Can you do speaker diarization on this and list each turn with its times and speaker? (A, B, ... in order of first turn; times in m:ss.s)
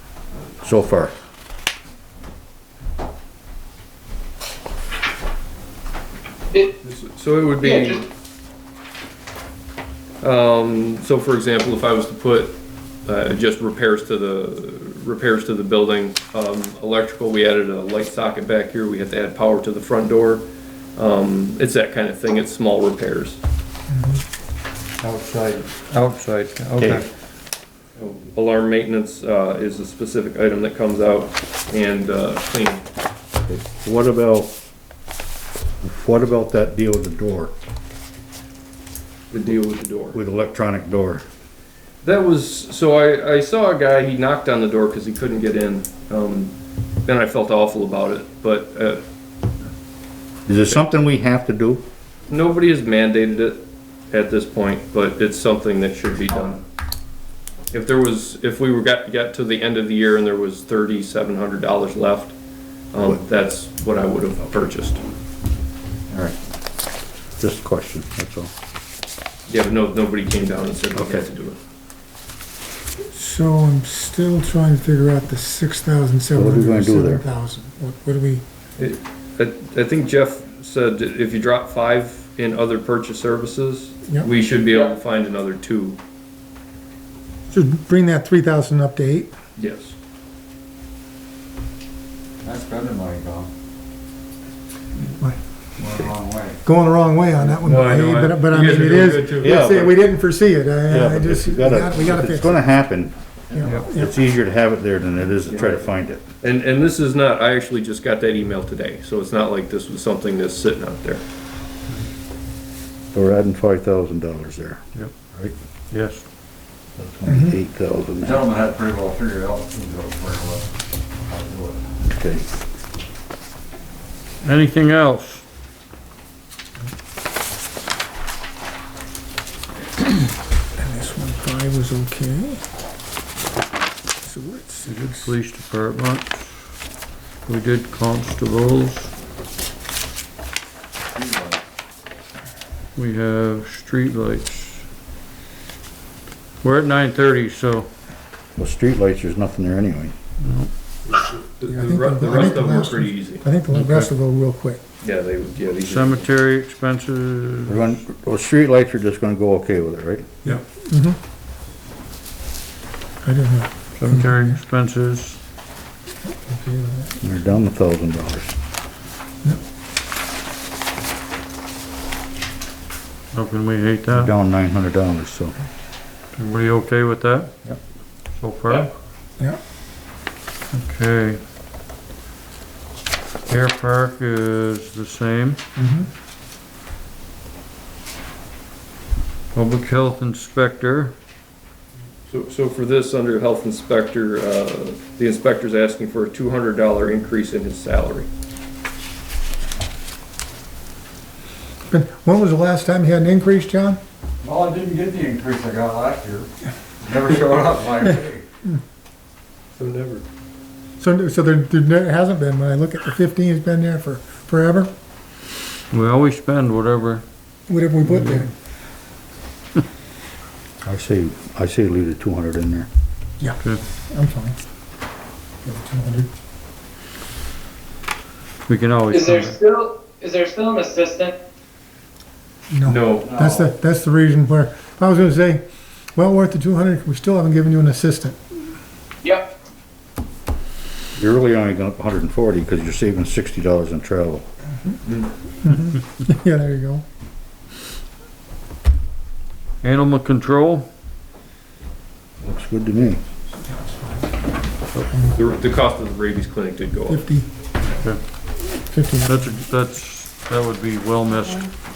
0:00.6-0:01.1 A
0:06.8-0:08.0 B
0:07.6-0:08.0 C
0:10.2-0:23.4 B
0:23.9-0:24.2 D
0:25.0-0:25.7 B
0:25.8-0:27.0 E
0:26.8-0:27.0 A
0:28.0-0:32.8 B
0:33.5-0:34.5 A
0:35.8-0:37.5 A
0:39.3-0:40.2 B
0:40.1-0:41.2 A
0:42.0-0:46.5 B
0:47.0-0:49.0 B
0:50.5-0:51.8 A
0:52.3-0:56.6 B
0:57.7-1:02.4 B
1:02.9-1:05.0 B
1:07.4-1:08.5 A
1:09.5-1:11.6 B
1:10.9-1:11.2 A
1:13.1-1:18.4 D
1:16.3-1:17.2 A
1:18.8-1:26.0 B
1:27.5-1:29.3 D
1:29.6-1:30.0 B
1:32.4-1:33.5 F
1:35.8-1:36.6 F
1:36.6-1:42.6 D
1:37.4-1:39.9 B
1:39.4-1:39.9 A
1:40.9-1:46.2 A
1:43.5-1:44.1 D
1:45.5-1:45.9 B
1:46.4-1:51.2 B
1:53.1-1:54.8 A
1:55.9-1:56.2 E
1:57.0-1:58.4 A
1:58.2-2:00.7 F
2:01.2-2:01.9 F
2:02.1-2:02.4 A
2:04.4-2:05.4 E
2:10.8-2:12.6 D
2:14.2-2:15.3 D
2:14.8-2:16.7 E
2:17.4-2:19.1 E
2:21.1-2:21.6 F
2:23.0-2:24.8 E
2:26.6-2:27.9 E
2:28.6-2:30.1 A
2:30.4-2:30.7 E
2:31.0-2:33.4 B
2:31.7-2:34.8 D
2:33.7-2:34.1 E
2:35.0-2:36.3 B
2:35.8-2:37.9 E
2:37.7-2:40.3 A
2:40.4-2:41.2 D
2:43.2-2:44.6 D
2:44.0-2:45.4 E
2:46.3-2:47.2 D
2:47.2-2:48.5 A
2:53.3-2:54.3 E
2:54.1-2:55.5 A
2:56.3-2:57.5 E
2:58.4-2:58.9 E
3:00.7-3:01.4 E
3:03.5-3:05.6 E
3:05.8-3:06.1 D
3:09.5-3:11.1 E
3:12.3-3:18.3 B
3:21.9-3:24.0 D
3:24.4-3:26.5 F
3:27.0-3:28.4 F
3:29.7-3:30.2 B
3:31.0-3:34.9 D
3:35.9-3:37.2 E
3:37.7-3:38.5 D
3:38.0-3:38.4 E
3:40.8-3:42.9 A
3:43.4-3:44.6 D
3:45.6-3:46.3 D
3:48.7-3:49.6 E
3:49.1-3:51.3 C
3:52.7-3:55.6 D
3:52.8-3:53.4 B
3:53.2-3:53.7 F
3:56.1-3:58.4 D
3:59.2-3:59.5 C
4:01.2-4:04.4 A
4:05.6-4:07.0 D
4:09.8-4:10.9 E
4:12.4-4:13.2 A
4:13.6-4:14.3 D
4:15.1-4:15.4 D
4:15.3-4:17.2 B
4:17.0-4:17.5 D
4:18.0-4:18.2 E
4:18.7-4:19.5 D
4:19.2-4:21.7 E